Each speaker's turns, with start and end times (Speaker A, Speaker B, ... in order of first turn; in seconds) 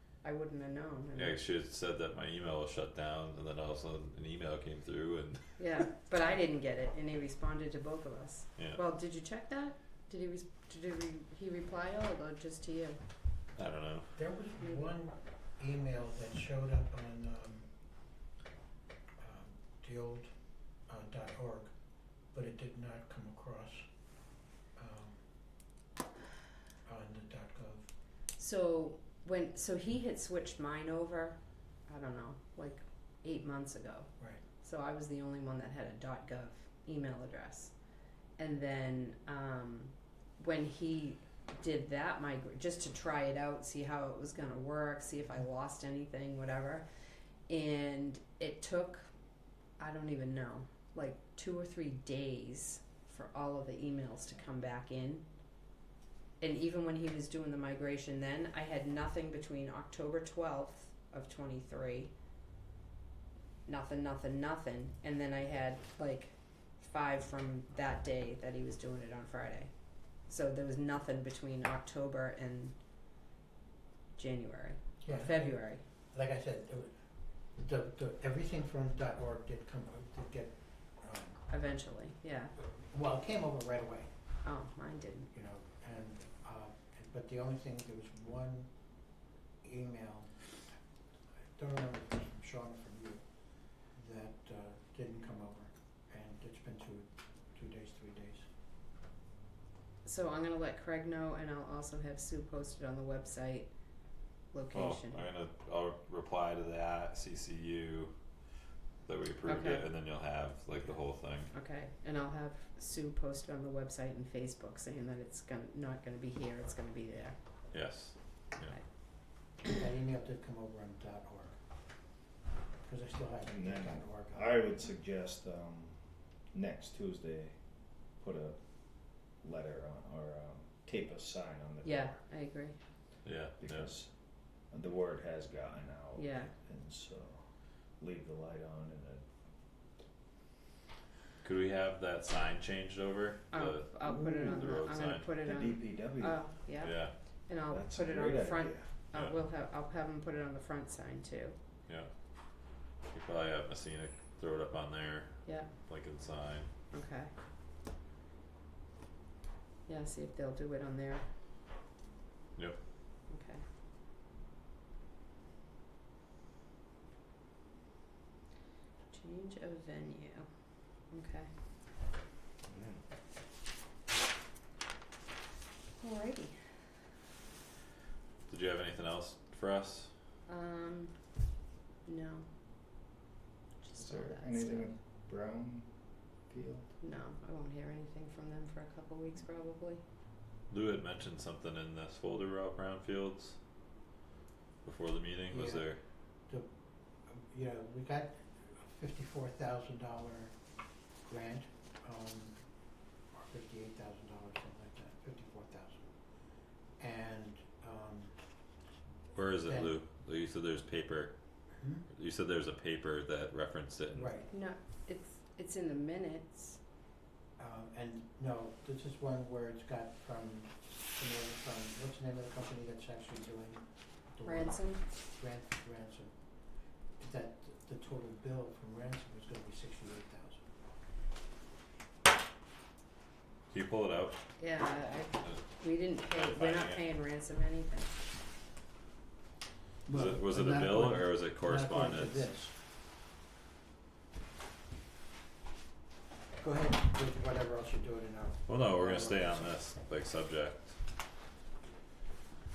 Speaker A: 0.2-1.4, 5.6-13.0, 28.4-37.7, 38.4-46.9, 47.5-49.1, 49.8-55.2, 56.4-62.1, 63.7-69.7, 70.3-72.8, 74.2-75.8, 81.5-82.5, 84.4-85.3, 100.0-103.7, 104.5-105.3, 109.5-109.8, 111.5-117.4, 131.8-132.8, 136.2-136.5, 143.5-151.6, 155.4-155.7, 156.9-157.3, 159.9-161.3, 163.3-163.6, 169.1-170.5, 171.1-171.5, 176.0-176.6, 180.5-181.2, 182.1-182.5, 183.8-184.9, 187.0-190.0, 214.5-216.8, 224.4-225.1, 234.6-238.2
Speaker B: 1.2-5.6, 13.6-14.1, 104.7-108.1, 109.1-111.5, 117.7-118.7, 133.2-133.9, 141.4-145.3, 146.8-147.1, 153.1-156.7, 178.5-180.1, 190.7-193.6, 194.8-196.0, 209.3-211.3, 212.1-214.3, 233.7-234.4, 236.2-237.0, 240.1-242.5, 248.7-250.9
Speaker C: 14.2-17.7, 19.2-20.3, 20.9-21.7, 22.3-23.9, 24.8-25.2, 26.9-27.9, 75.0-76.9, 77.6-81.4, 82.9-84.1, 85.3-88.7, 89.6-90.6, 91.4-93.2, 93.9-98.5, 119.6-121.6, 122.8-124.6, 195.5-195.8, 197.3-200.6, 201.3-202.6, 203.3-206.1, 207.0-208.4, 209.6-209.9, 211.8-212.1, 214.1-214.5, 217.6-226.4, 227.2-230.7, 240.1-242.7, 246.6-249.8
Speaker D: 123.5-132.2, 133.6-134.1, 134.7-137.5, 138.0-139.2, 144.1-144.6, 145.4-146.5, 147.7-148.9, 172.7-173.0, 184.0-186.9